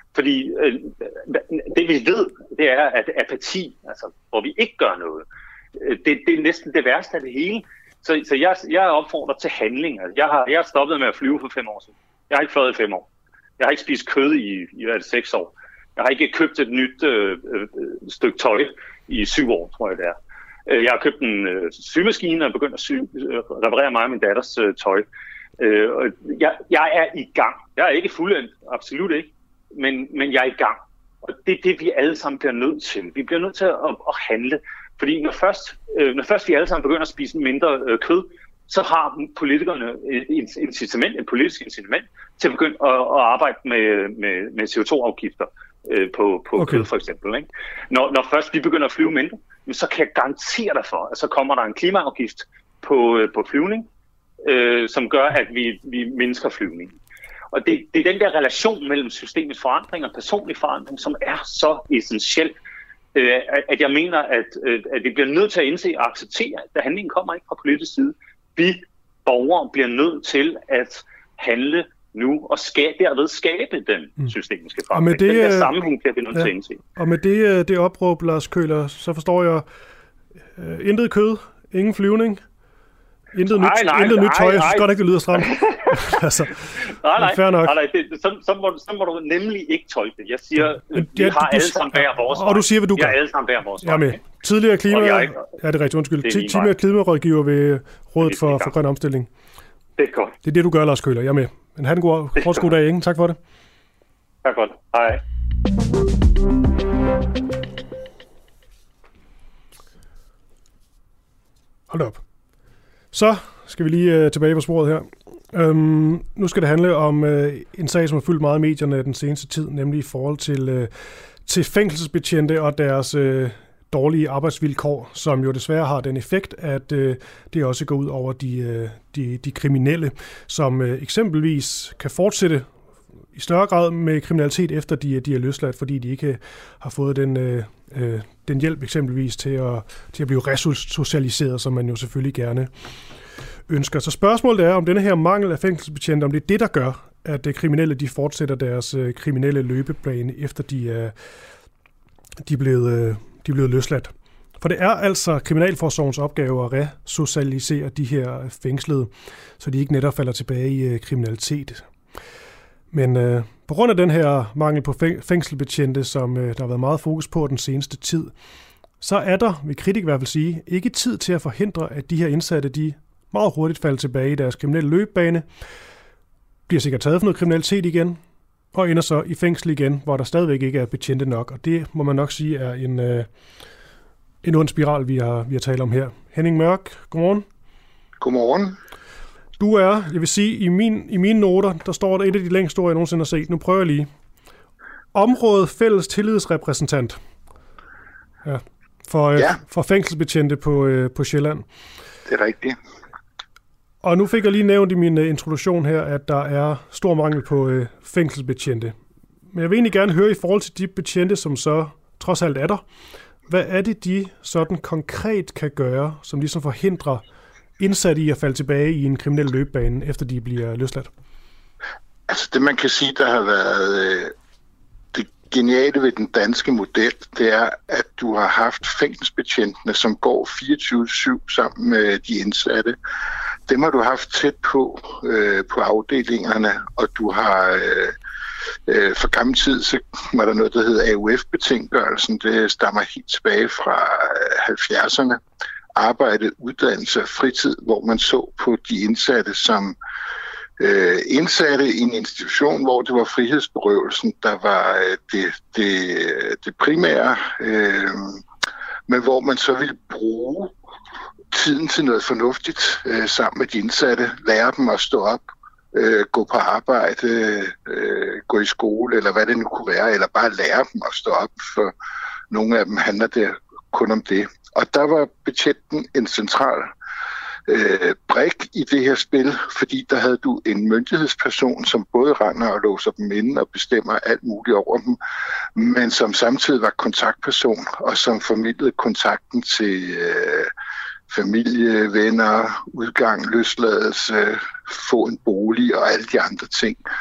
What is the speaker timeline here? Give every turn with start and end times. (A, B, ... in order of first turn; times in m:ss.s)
0:00.1-0:05.2 A
0:05.8-0:13.1 A
0:13.6-0:25.0 A
0:25.6-0:53.9 A
0:46.6-0:46.9 B
0:54.4-0:57.0 A
0:57.5-1:02.6 A
1:03.2-1:16.8 A
1:14.9-1:15.7 B
1:16.3-1:19.6 B
1:20.6-1:22.4 B
1:23.3-1:27.7 B
1:23.5-1:26.2 A
1:26.9-1:34.4 A
1:30.6-1:33.2 B
1:33.8-1:39.3 B
1:34.9-1:35.5 A
1:36.2-1:36.8 A
1:38.2-1:38.8 A
1:40.0-1:40.4 A
1:40.4-1:43.4 B
1:42.4-1:42.7 A
1:44.4-1:45.2 A
1:51.9-1:52.2 B
1:53.1-2:00.9 B
2:01.4-2:12.7 B
2:13.3-2:22.7 B
2:23.7-2:31.1 B
2:32.4-2:41.9 B
2:42.9-2:48.3 B
2:49.0-2:55.5 B
2:56.7-2:58.2 B
2:58.7-3:03.3 B
3:04.4-3:07.5 B
3:08.2-3:08.8 C
3:09.6-3:14.1 B
3:15.1-3:17.2 B
3:18.4-3:21.7 B
3:22.3-3:22.8 C
3:24.0-3:29.0 B
3:29.5-3:32.8 B
3:33.5-3:37.2 B
3:37.8-3:41.1 B
3:42.3-3:44.3 C
3:45.1-3:53.0 C
3:53.7-3:58.1 C
3:58.9-4:05.4 C
4:06.0-4:10.0 C
4:10.8-4:18.4 C
4:19.1-4:20.7 C
4:21.5-4:25.4 C
4:25.9-4:31.9 C
4:32.5-4:36.9 C
4:37.7-4:45.2 C
4:45.8-4:50.7 C
4:51.3-4:57.0 C